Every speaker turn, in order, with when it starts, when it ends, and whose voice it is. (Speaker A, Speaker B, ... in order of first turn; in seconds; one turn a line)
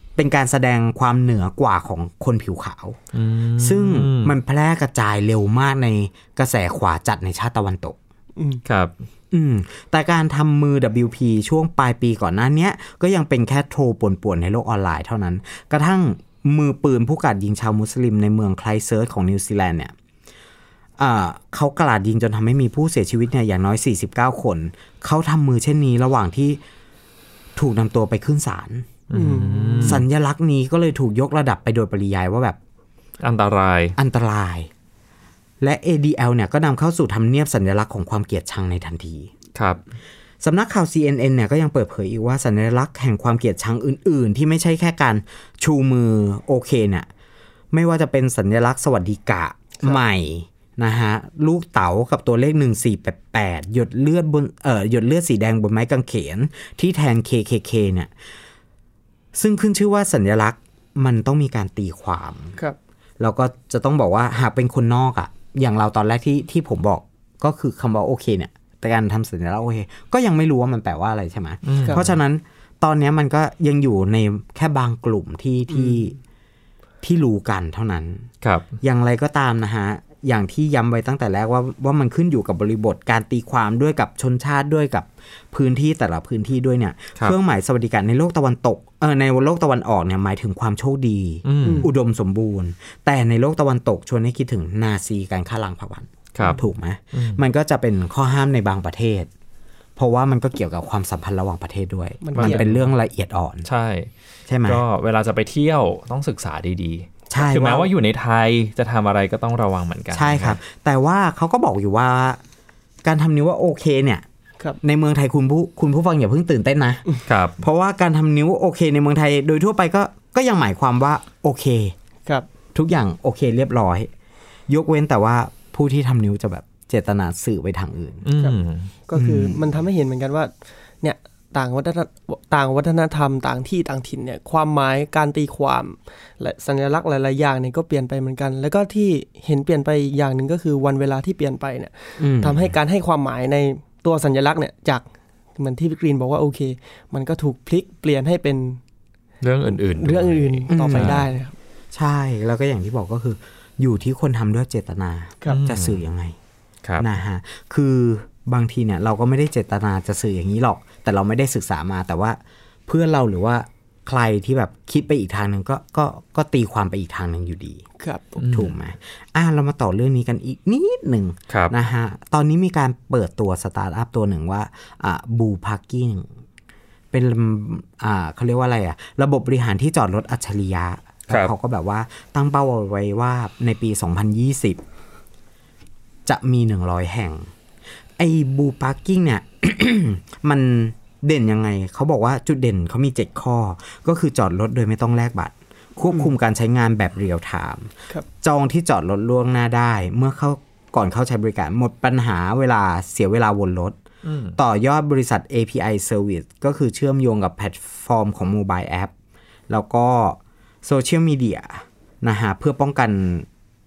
Speaker A: 0.2-3.0
Speaker B: 3.1-4.3
Speaker A: 3.6-8.0
Speaker C: 8.4-8.6
Speaker B: 8.7-8.9
Speaker A: 9.3-19.9
Speaker A: 21.0-26.6
Speaker A: 27.6-28.9
Speaker B: 29.1-30.0
Speaker C: 29.1-30.0
Speaker A: 29.8-32.6
Speaker B: 33.2-34.0
Speaker A: 34.0-34.7
Speaker A: 35.6-39.3
Speaker B: 39.5-39.8
Speaker A: 40.4-47.1
Speaker A: 47.7-58.1
Speaker A: 59.3-62.6
Speaker A: 63.2-76.2
Speaker B: 71.7-72.0
Speaker C: 75.7-76.1
Speaker A: 77.0-78.3
Speaker B: 78.4-78.7
Speaker A: 78.8-99.3
Speaker B: 91.5-91.9
Speaker C: 91.6-91.9
Speaker B: 97.1-97.4
Speaker A: 100.0-103.7
Speaker C: 102.2-102.7
Speaker B: 102.4-102.9
Speaker B: 103.7-104.1
Speaker A: 104.5-104.8
Speaker B: 104.7-110.6
Speaker A: 107.3-107.9
Speaker A: 110.1-112.4
Speaker A: 113.0-114.2
Speaker A: 114.8-117.0
Speaker B: 117.3-117.6
Speaker A: 117.6-122.0
Speaker A: 122.7-124.1
Speaker A: 124.7-128.3
Speaker B: 128.2-128.9
Speaker C: 128.4-145.0
Speaker A: 129.1-129.6
Speaker A: 142.2-142.7
Speaker C: 145.6-148.8
Speaker B: 149.4-151.2
Speaker C: 150.0-151.6
Speaker A: 150.7-151.2
Speaker A: 151.9-156.4
Speaker B: 155.5-156.0
Speaker A: 157.0-167.8
Speaker C: 168.0-168.4
Speaker B: 168.4-168.7
Speaker A: 168.5-176.3
Speaker A: 177.1-184.8
Speaker A: 186.3-187.5
Speaker A: 188.2-204.0
Speaker B: 204.2-204.6
Speaker A: 204.6-209.1
Speaker A: 209.7-213.5